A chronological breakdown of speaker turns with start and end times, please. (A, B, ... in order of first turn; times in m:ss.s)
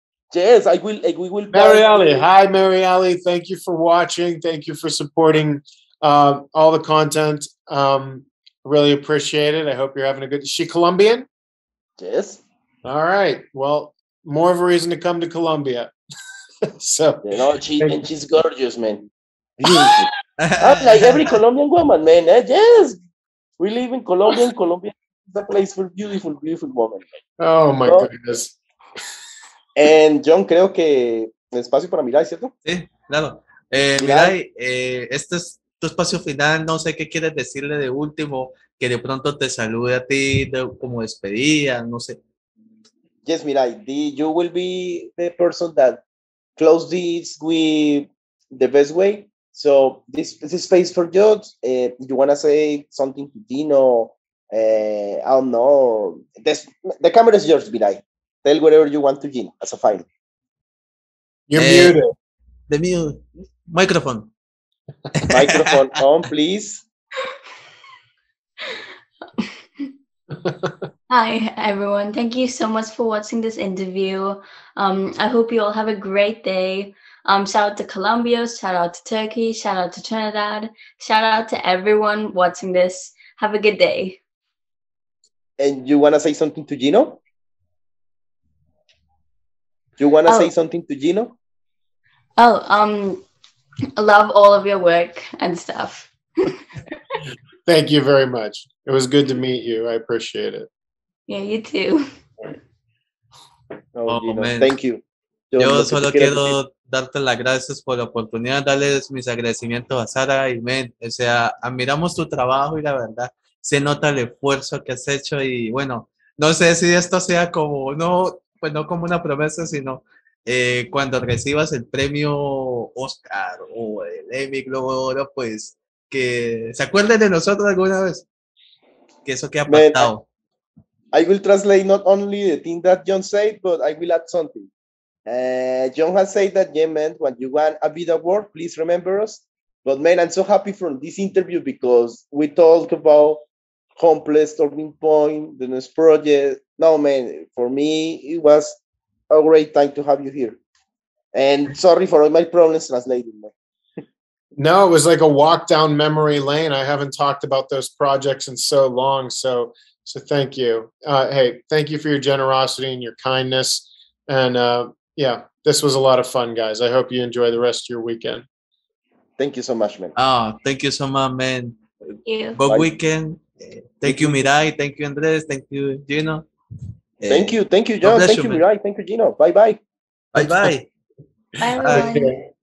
0:00.3-0:02.2 A
0:01.5-0:11.2 B
0:12.0-0:12.4 A
0:12.8-0:15.9 B
0:16.8-0:18.0 B
0:17.2-0:23.0 A
0:20.4-0:21.3 C
0:23.6-0:27.2 A
0:27.4-0:28.5 B
0:29.8-0:32.5 A
0:32.6-0:42.2 C
0:34.0-0:34.4 A
0:43.2-0:46.0 A
0:46.6-1:00.0 A
1:01.5-1:02.1 B
1:01.6-1:02.0 C
1:02.7-1:04.3 C
1:05.2-1:05.9 C
1:05.3-1:06.8 A
1:09.4-1:09.9 D
1:10.4-1:10.7 B
1:11.1-1:24.2 D
1:25.6-1:27.2 A
1:30.0-1:31.3 A
1:30.3-1:30.5 D
1:32.4-1:33.2 D
1:34.0-1:36.6 D
1:37.6-1:40.7 B
1:41.3-1:42.1 D
1:43.9-1:46.5 A
1:44.1-1:44.7 C
1:45.6-2:08.2 C
2:09.2-2:10.2 C
2:09.7-2:10.1 A
2:11.1-2:14.7 A
2:15.2-2:23.4 A
2:24.0-2:28.8 A
2:29.3-2:30.6 A
2:31.3-2:33.5 A
2:34.6-2:48.4 B
2:49.4-2:50.1 A
2:50.2-2:56.5 C
2:52.2-2:52.6 D
2:54.0-2:54.4 A
2:57.2-2:58.6 C
2:57.3-2:59.8 A
3:00.3-3:00.9 C
3:00.4-3:00.7 B
3:01.6-3:02.4 D
3:01.7-3:02.4 B
3:01.8-3:02.2 C